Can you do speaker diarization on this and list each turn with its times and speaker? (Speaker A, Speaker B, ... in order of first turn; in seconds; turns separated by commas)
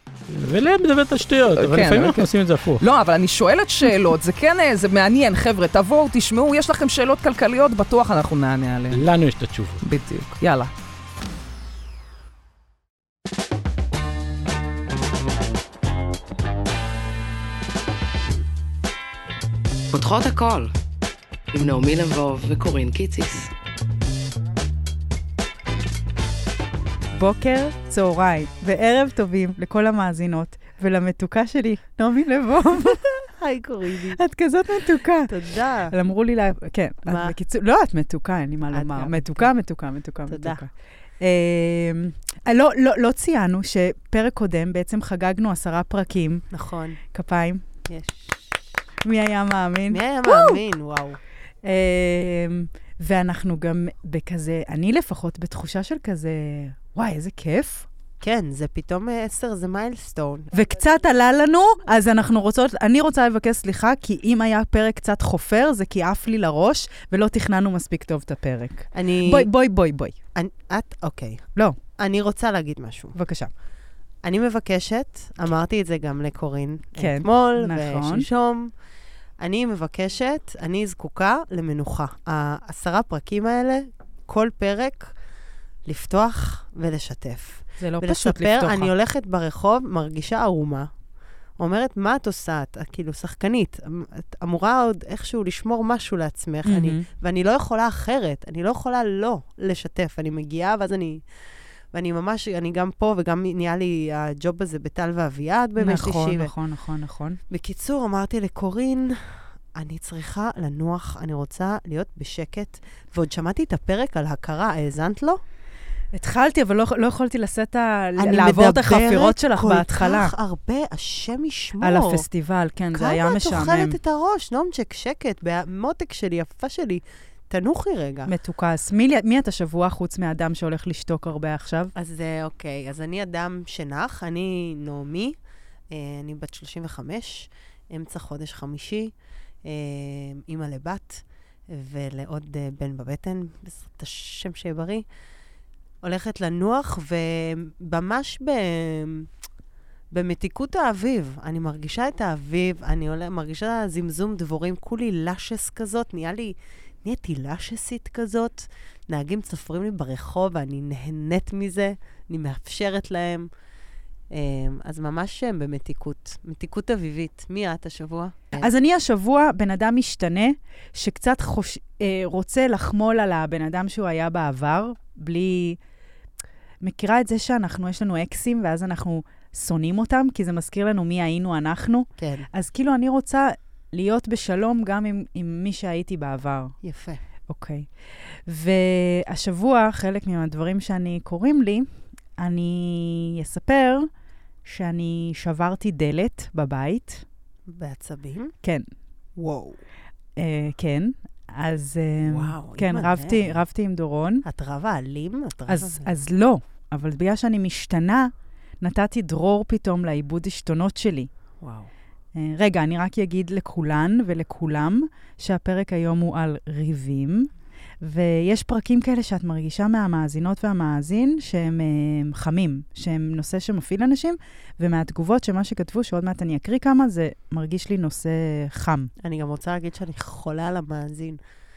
Speaker A: 0.3-2.8, Speaker B: 1.5-9.0, Speaker A: 8.9-9.8, Speaker B: 9.8-10.7, Speaker C: 19.9-20.7, Speaker C: 21.5-23.5, Speaker D: 27.1-33.0, Speaker E: 32.8-34.2, Speaker D: 34.1-35.3, Speaker E: 35.3-35.9, Speaker D: 35.9-46.4, Speaker E: 37.0-37.3, Speaker E: 38.7-39.5, Speaker E: 40.3-40.6, Speaker E: 46.5-47.0, Speaker D: 47.1-47.6, Speaker E: 47.9-48.6, Speaker D: 49.0-50.6, Speaker E: 49.9-51.2, Speaker D: 51.6-57.9, Speaker E: 58.2-60.5, Speaker D: 60.5-70.1, Speaker E: 68.9-69.5, Speaker E: 70.3-71.4, Speaker E: 72.0-73.2, Speaker D: 73.1-73.5, Speaker E: 74.2-78.7, Speaker D: 77.0-78.3, Speaker E: 79.4-85.1, Speaker E: 85.8-90.9, Speaker D: 87.8-88.9, Speaker E: 91.6-101.2, Speaker D: 96.6-97.0, Speaker E: 101.9-106.5, Speaker D: 105.8-107.4, Speaker E: 107.5-115.4, Speaker D: 116.1-120.3, Speaker E: 118.2-122.2, Speaker D: 121.8-124.0, Speaker E: 122.9-128.3, Speaker D: 128.3-131.9, Speaker E: 131.9-135.3, Speaker E: 135.9-139.1, Speaker E: 139.6-145.0, Speaker E: 146.0-149.3, Speaker E: 150.1-163.5, Speaker E: 164.3-168.7, Speaker D: 168.6-175.8, Speaker D: 176.8-186.7, Speaker E: 182.2-182.5, Speaker E: 186.8-187.2, Speaker D: 187.5-187.9, Speaker D: 188.5-191.9, Speaker D: 192.4-194.1, Speaker D: 194.6-197.2, Speaker E: 197.7-198.5, Speaker E: 199.4-199.8, Speaker D: 200.3-204.4, Speaker E: 202.2-203.6, Speaker E: 204.4-206.1, Speaker D: 205.7-211.3, Speaker E: 211.6-211.9, Speaker D: 212.3-229.1, Speaker E: 229.2-231.4